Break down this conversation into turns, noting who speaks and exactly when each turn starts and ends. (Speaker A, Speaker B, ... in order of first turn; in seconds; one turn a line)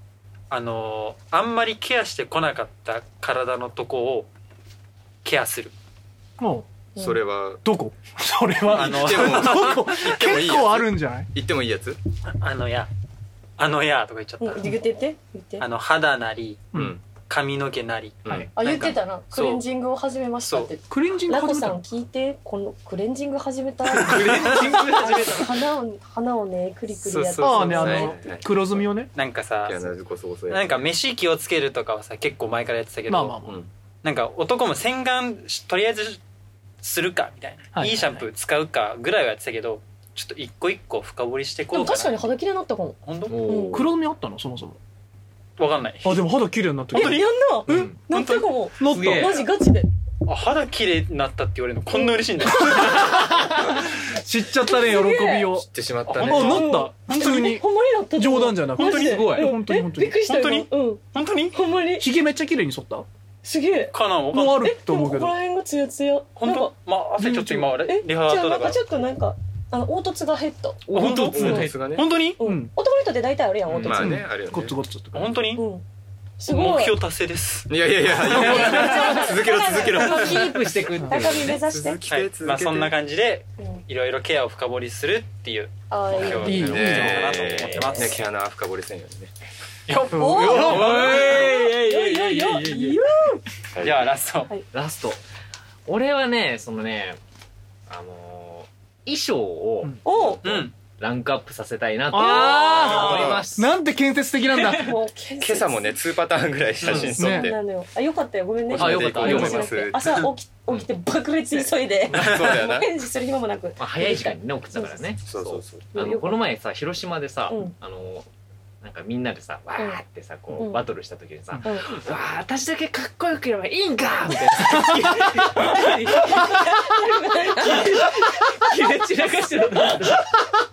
Speaker A: 0.5-4.3
Speaker A: 5.2-5.7
Speaker B: 6.4-6.7
Speaker C: 6.9-7.2
Speaker D: 7.0-7.6
Speaker B: 7.6-11.3
Speaker D: 8.7-12.0
Speaker A: 8.7-10.0
Speaker A: 12.3-12.9
Speaker A: 13.6-14.8
Speaker C: 14.4-15.7
Speaker A: 15.6-19.6
Speaker D: 16.7-17.0
Speaker D: 18.2-18.5
Speaker C: 18.6-28.2
Speaker A: 20.4-20.7
Speaker B: 20.9-21.8
Speaker A: 23.9-24.2
Speaker E: 24.0-25.5
Speaker B: 24.2-24.9
Speaker E: 27.0-27.7
Speaker B: 27.4-29.1
Speaker D: 27.8-28.6
Speaker A: 29.1-29.9
Speaker D: 29.6-30.8
Speaker A: 30.5-36.2
Speaker B: 33.1-33.5
Speaker A: 36.8-42.3
Speaker B: 37.7-38.2
Speaker C: 41.7-43.8
Speaker A: 43.0-43.4
Speaker E: 43.3-43.9
Speaker B: 43.7-44.8
Speaker A: 45.6-46.2
Speaker B: 46.0-47.9
Speaker C: 46.9-49.9
Speaker A: 46.9-48.6
Speaker E: 47.7-48.0
Speaker B: 48.8-49.3
Speaker E: 48.9-49.4
Speaker A: 50.2-53.1
Speaker C: 51.9-52.3
Speaker B: 53.0-60.2
Speaker C: 54.6-55.5
Speaker D: 55.6-56.6
Speaker A: 56.1-56.4
Speaker C: 56.4-62.1
Speaker A: 58.8-59.4
Speaker A: 60.2-61.6
Speaker B: 62.0-63.0
Speaker C: 63.4-63.9
Speaker A: 63.9-64.6
Speaker B: 64.3-65.3
Speaker C: 64.6-71.7
Speaker A: 66.4-68.8
Speaker E: 70.9-71.7
Speaker B: 71.0-72.7
Speaker A: 71.0-72.3
Speaker D: 71.0-72.1
Speaker C: 72.4-74.2
Speaker E: 73.7-74.0
Speaker D: 73.8-74.8
Speaker B: 73.9-75.4
Speaker A: 75.1-75.6
Speaker C: 75.5-75.8
Speaker C: 76.4-77.0
Speaker A: 76.4-77.7
Speaker D: 77.7-80.5
Speaker A: 78.3-79.2
Speaker C: 78.3-80.5
Speaker B: 78.4-79.0
Speaker E: 79.9-81.5
Speaker A: 80.1-80.4
Speaker B: 81.0-81.3
Speaker C: 81.1-82.0
Speaker A: 81.3-88.2
Speaker D: 81.3-82.9
Speaker C: 83.6-83.8
Speaker C: 85.9-86.9
Speaker D: 86.2-89.3
Speaker B: 86.3-87.2
Speaker E: 87.5-87.9
Speaker C: 87.7-88.2
Speaker A: 89.9-92.7
Speaker B: 90.1-90.9
Speaker C: 90.1-93.4
Speaker D: 90.4-90.7
Speaker E: 90.5-93.0
Speaker D: 93.7-94.1
Speaker A: 93.8-94.5
Speaker E: 94.7-95.2
Speaker E: 95.9-97.2
Speaker E: 97.9-103.7
Speaker C: 100.0-100.5
Speaker A: 100.4-100.7
Speaker B: 102.1-105.0
Speaker C: 102.5-103.2
Speaker D: 102.9-103.5
Speaker C: 104.7-106.0
Speaker D: 105.4-107.6
Speaker E: 106.8-107.1
Speaker C: 106.9-115.1
Speaker B: 107.0-107.5
Speaker D: 108.7-110.1
Speaker E: 108.7-109.7
Speaker B: 109.2-109.6
Speaker D: 112.1-112.9
Speaker A: 112.1-112.5
Speaker E: 113.8-118.3
Speaker D: 115.3-116.1
Speaker C: 115.9-116.4
Speaker C: 117.5-117.7
Speaker E: 118.8-130.2
Speaker C: 120.5-120.8
Speaker C: 125.5-130.2